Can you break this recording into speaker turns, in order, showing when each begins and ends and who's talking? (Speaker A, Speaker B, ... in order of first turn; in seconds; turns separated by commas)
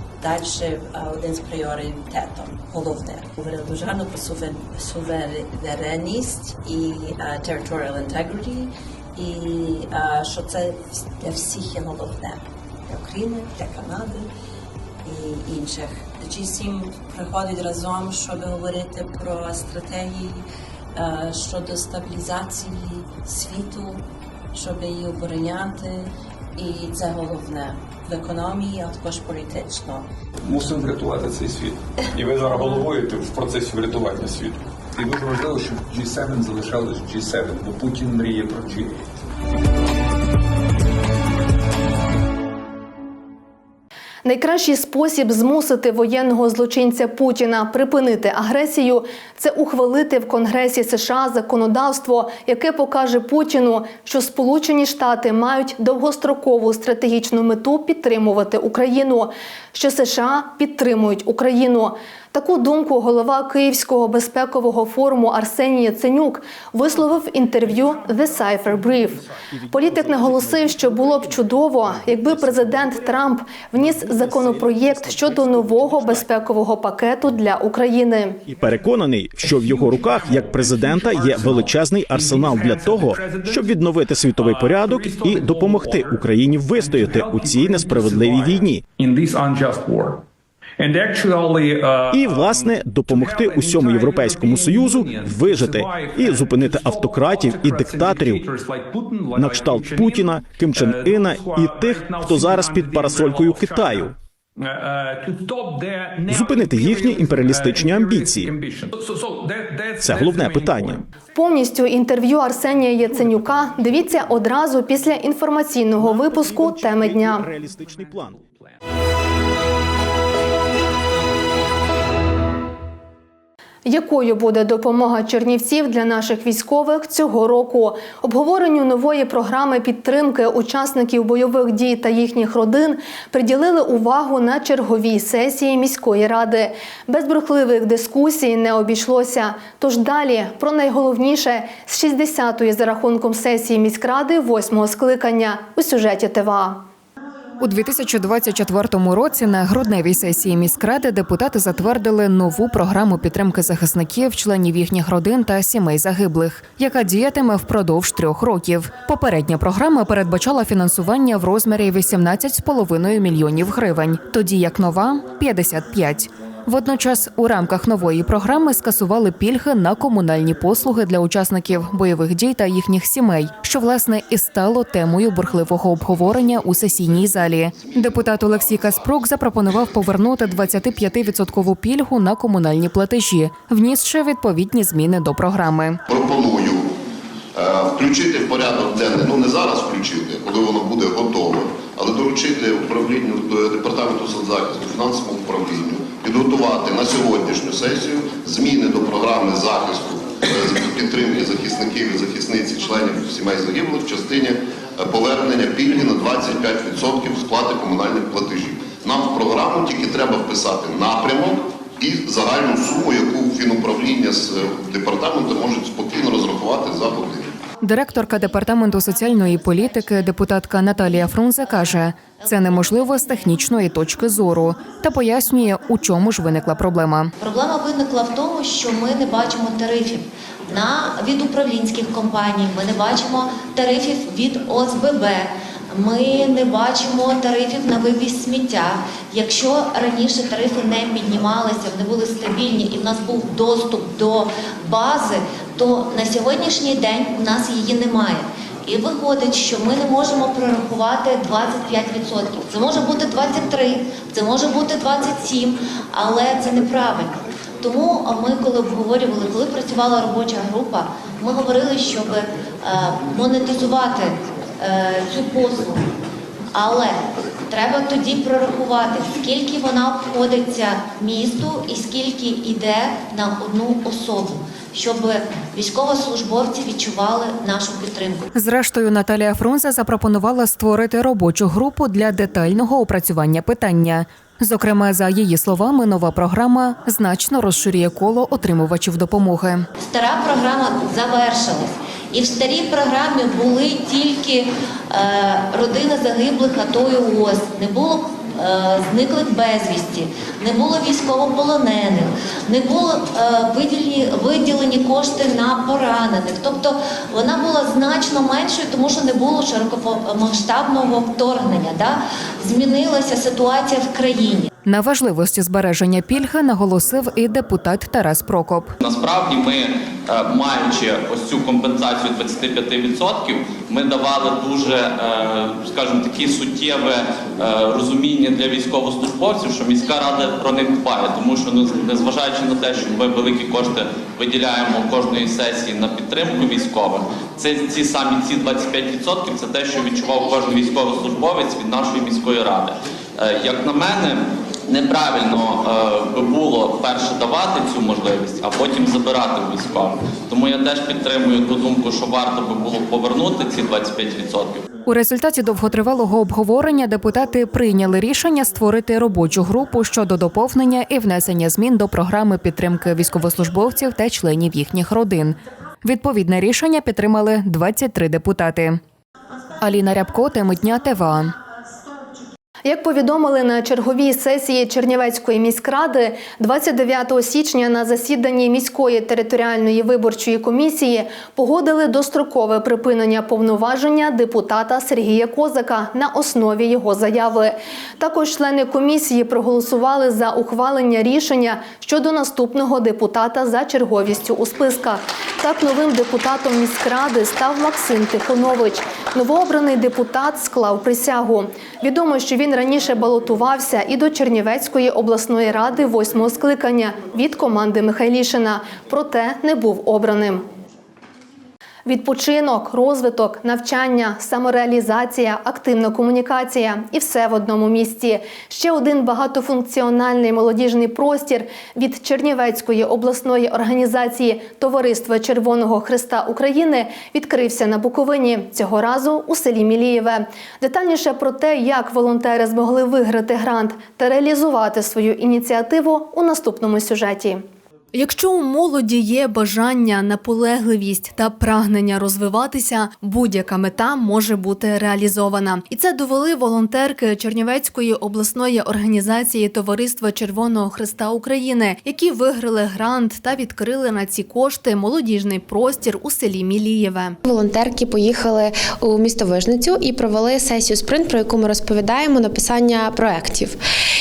Speaker A: 0.2-14.3, Speaker A: 15.0-24.0, Speaker A: 24.5-30.1, Speaker B: 30.4-39.0, Speaker A: 32.6-32.9, Speaker C: 44.2-78.4, Speaker D: 69.5-73.2, Speaker D: 73.7-76.2, Speaker D: 78.5-88.8, Speaker B: 80.5-80.8, Speaker E: 82.2-82.4, Speaker B: 82.7-83.2, Speaker E: 85.2-85.7, Speaker B: 87.5-88.3, Speaker E: 89.1-90.0, Speaker E: 90.9-92.0, Speaker D: 92.1-98.5, Speaker E: 93.7-94.4, Speaker B: 94.0-95.0, Speaker E: 94.9-95.4, Speaker E: 96.8-100.1, Speaker D: 99.3-104.1, Speaker E: 103.0-103.8, Speaker E: 105.1-106.4, Speaker D: 106.2-108.5, Speaker E: 108.8-110.4, Speaker D: 110.0-111.0, Speaker B: 110.5-110.9, Speaker C: 111.3-117.5, Speaker D: 116.0-118.4, Speaker C: 123.8-146.8, Speaker F: 147.6-186.0, Speaker G: 186.1-186.9, Speaker G: 187.6-217.5, Speaker F: 217.8-227.3, Speaker H: 219.2-219.8, Speaker H: 221.5-223.5, Speaker H: 227.4-266.1, Speaker H: 266.7-278.4, Speaker F: 278.5-289.9, Speaker H: 290.0-314.7, Speaker F: 314.8-318.9, Speaker I: 319.0-354.8, Speaker F: 355.1-369.0, Speaker F: 369.8-371.5, Speaker C: 372.8-410.6, Speaker C: 412.0-457.4, Speaker J: 457.4-463.8